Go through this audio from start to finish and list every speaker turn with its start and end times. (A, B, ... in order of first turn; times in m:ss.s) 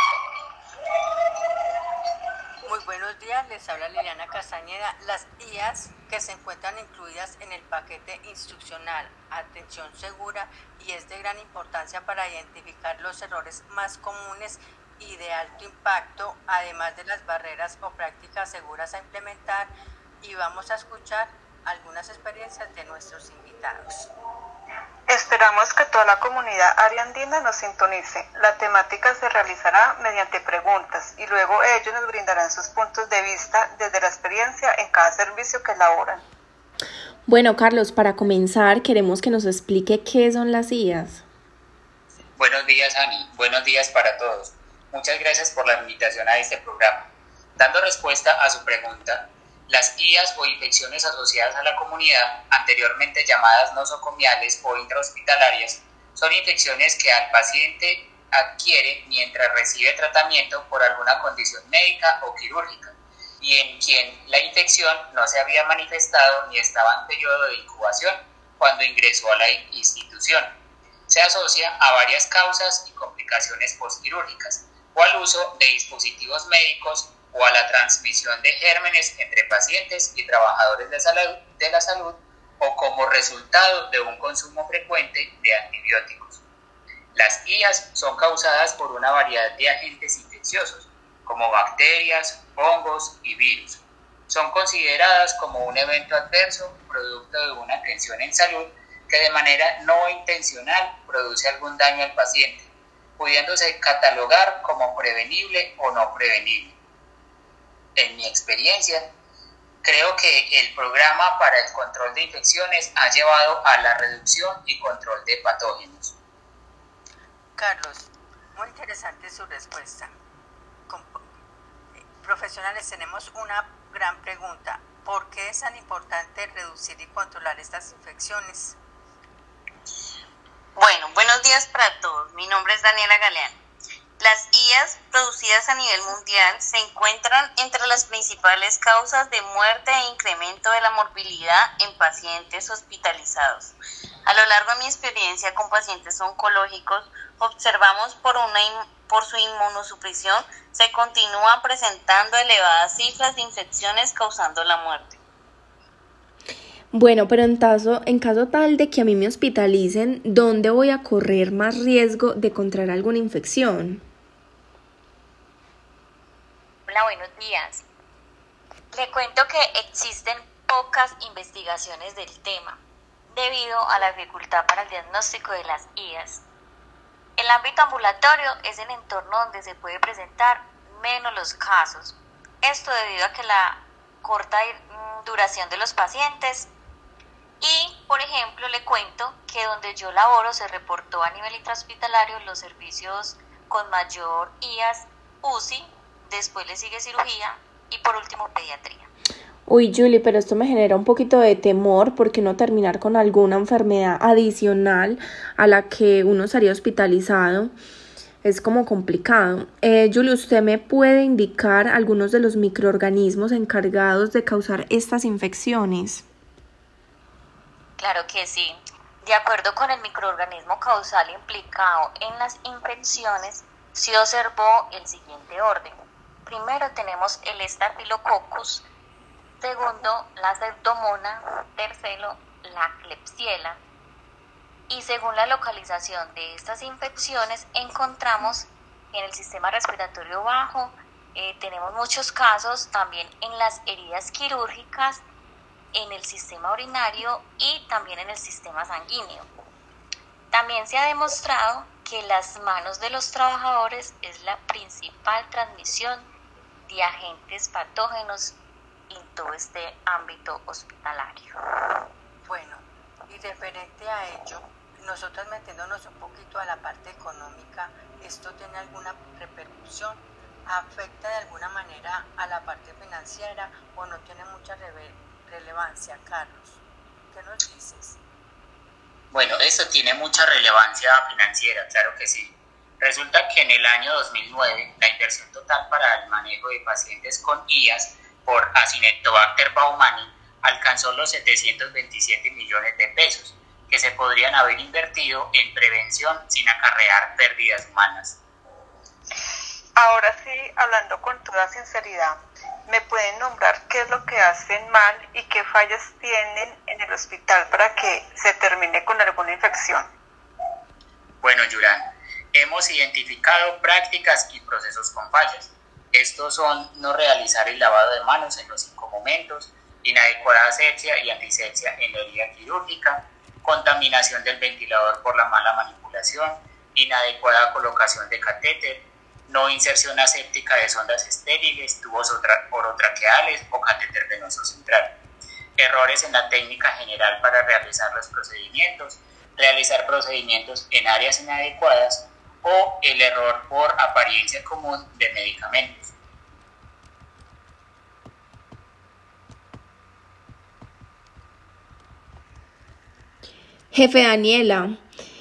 0:02.6-0:24.1 A
0:25.1-0:36.2 B
0:37.3-0:41.2 C
0:42.4-1:10.5 D
1:11.1-1:26.4 D
1:27.1-1:46.8 D
1:48.0-1:49.1 D
1:49.8-1:56.1 D
1:57.6-2:00.1 A
2:00.9-2:01.2 A
2:02.2-2:08.8 A
2:10.8-2:13.6 E
2:14.2-2:23.7 E
2:24.2-2:35.2 E
2:36.9-2:44.0 C
2:46.9-2:47.8 F
2:48.9-2:56.4 F
2:57.4-3:06.7 F
3:07.6-3:19.1 F
3:19.7-3:27.7 C
3:28.4-3:36.2 C
3:38.0-3:48.8 F
3:49.6-3:53.8 F
3:54.9-4:05.2 F
4:05.9-4:09.5 F
4:10.5-4:16.3 F
4:16.9-4:18.6 F
4:19.1-4:21.5 F
4:22.4-4:36.8 A
4:37.3-4:38.2 A
4:39.3-4:58.4 D
5:00.0-5:10.1 B
5:11.4-5:35.2 D
5:35.8-5:46.1 D
5:53.9-5:55.0 C